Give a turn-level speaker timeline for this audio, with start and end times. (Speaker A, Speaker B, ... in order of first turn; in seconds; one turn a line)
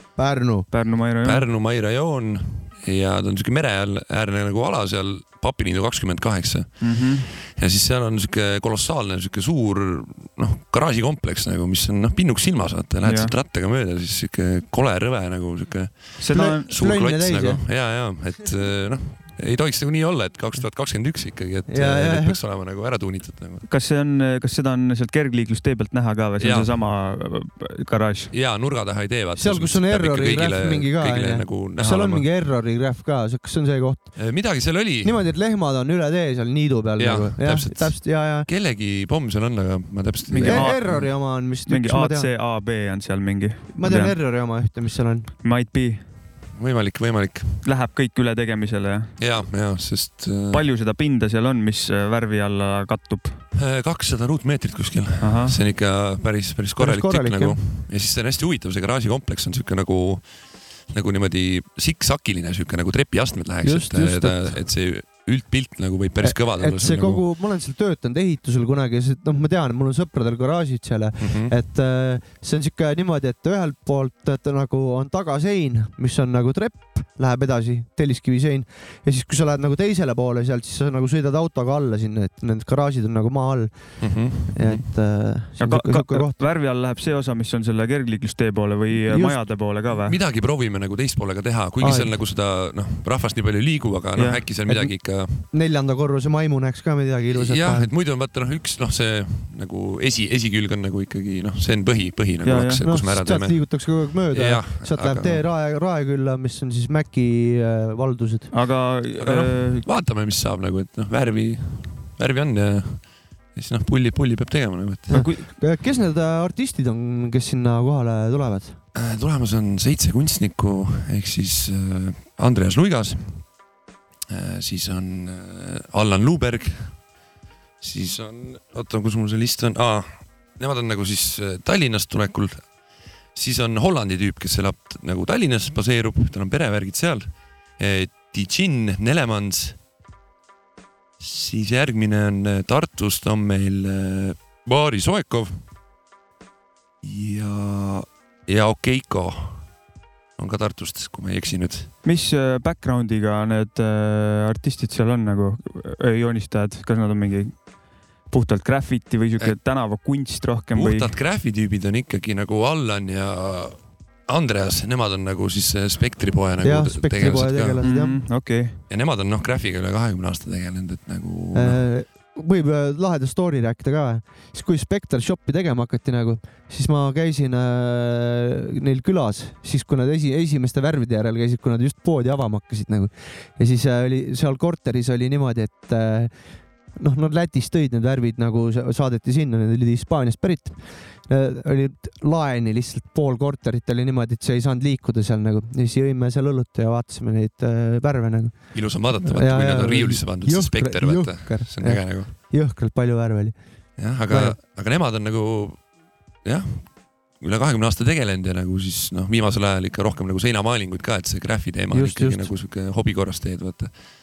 Speaker A: 0.2-0.7
Speaker B: 0.7-1.5
Speaker C: 1.2-23.7
Speaker B: 6.8-7.3
Speaker B: 13.0-13.3
Speaker B: 16.2-16.7
Speaker A: 16.3-17.6
Speaker A: 21.7-22.4
Speaker B: 23.7-28.3
Speaker C: 26.4-26.8
Speaker C: 28.3-32.3
Speaker A: 29.4-34.2
Speaker C: 34.2-35.2
Speaker A: 35.0-38.5
Speaker C: 37.0-41.0
Speaker B: 40.3-44.1
Speaker A: 40.4-42.3
Speaker A: 43.7-45.3
Speaker B: 45.4-46.1
Speaker C: 46.5-47.6
Speaker B: 47.6-49.2
Speaker C: 49.2-50.6
Speaker B: 50.5-53.4
Speaker C: 53.5-60.3
Speaker B: 55.2-55.6
Speaker A: 56.8-57.6
Speaker C: 60.9-67.2
Speaker A: 63.6-64.6
Speaker A: 66.2-83.9
Speaker C: 71.2-71.5
Speaker C: 84.0-84.9
Speaker A: 84.5-86.4
Speaker B: 85.6-90.2
Speaker A: 89.1-89.4
Speaker C: 89.9-95.4
Speaker A: 91.8-92.1
Speaker B: 94.2-94.4
Speaker A: 94.7-97.9
Speaker C: 97.3-105.4
Speaker B: 102.4-102.9
Speaker A: 102.8-108.5
Speaker B: 108.5-109.9
Speaker C: 109.2-115.2
Speaker B: 115.1-115.5
Speaker A: 115.1-118.8
Speaker C: 118.9-123.5
Speaker C: 124.3-127.0
Speaker C: 127.8-132.7
Speaker C: 133.3-139.8
Speaker C: 141.2-145.6
Speaker C: 147.0-149.7
Speaker C: 150.4-151.9
Speaker B: 152.0-157.7
Speaker B: 158.2-161.2
Speaker C: 160.7-167.8
Speaker A: 166.6-168.2
Speaker B: 167.8-168.8
Speaker C: 168.9-171.8
Speaker A: 171.5-186.3
Speaker A: 186.9-204.6
Speaker C: 198.7-202.3
Speaker C: 204.0-205.8
Speaker C: 206.4-213.9
Speaker A: 211.9-212.5